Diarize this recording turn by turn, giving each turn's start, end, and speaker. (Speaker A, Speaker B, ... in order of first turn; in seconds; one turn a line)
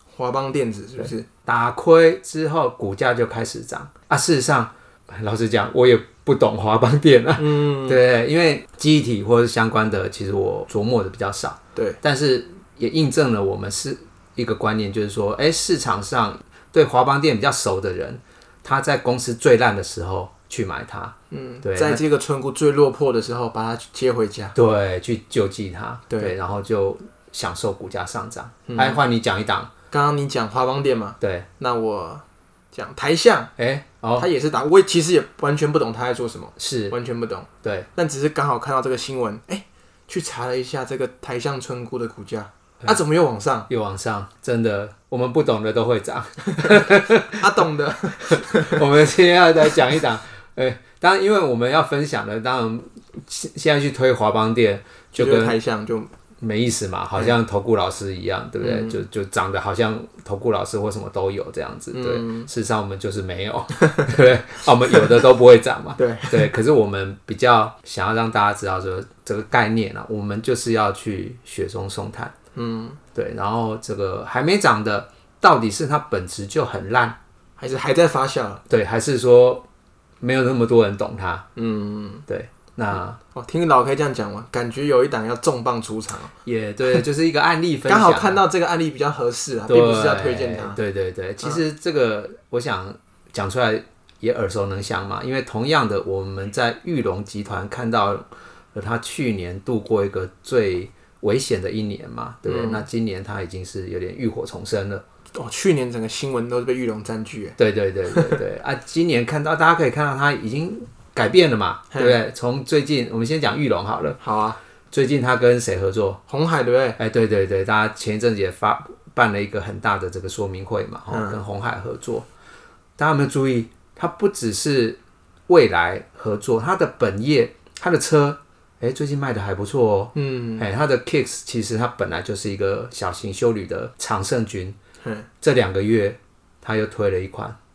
Speaker A: 0.1-1.3
Speaker B: 1.4-22.0
Speaker A: 7.4-8.0
Speaker A: 11.7-12.0
Speaker A: 21.3-24.5
Speaker B: 24.5-29.7
Speaker A: 28.7-29.0
Speaker A: 29.9-33.5
Speaker B: 31.2-31.5
Speaker B: 33.6-34.3
Speaker A: 34.2-43.7
Speaker B: 36.6-37.0
Speaker B: 37.6-37.9
Speaker B: 43.7-47.5
Speaker A: 47.3-48.8
Speaker B: 48.3-55.6
Speaker A: 55.1-56.1
Speaker B: 56.4-72.3
Speaker A: 58.6-59.0
Speaker A: 61.9-62.5
Speaker A: 63.8-64.1
Speaker A: 64.9-65.2
Speaker A: 66.0-66.5
Speaker A: 72.5-73.0
Speaker B: 73.1-77.2
Speaker A: 77.6-78.6
Speaker B: 78.7-79.7
Speaker B: 80.2-81.5
Speaker A: 81.5-82.2
Speaker B: 82.3-83.2
Speaker A: 83.3-86.3
Speaker B: 86.4-88.4
Speaker A: 87.8-90.8
Speaker B: 89.7-105.0
Speaker A: 102.5-102.8
Speaker A: 105.3-107.6
Speaker B: 107.6-114.2
Speaker A: 108.1-108.4
Speaker A: 111.9-112.2
Speaker A: 114.2-114.6
Speaker B: 114.9-116.2
Speaker A: 116.3-117.0
Speaker B: 117.0-122.2
Speaker A: 121.1-121.4
Speaker B: 123.0-134.8
Speaker A: 130.1-130.7
Speaker B: 135.4-137.6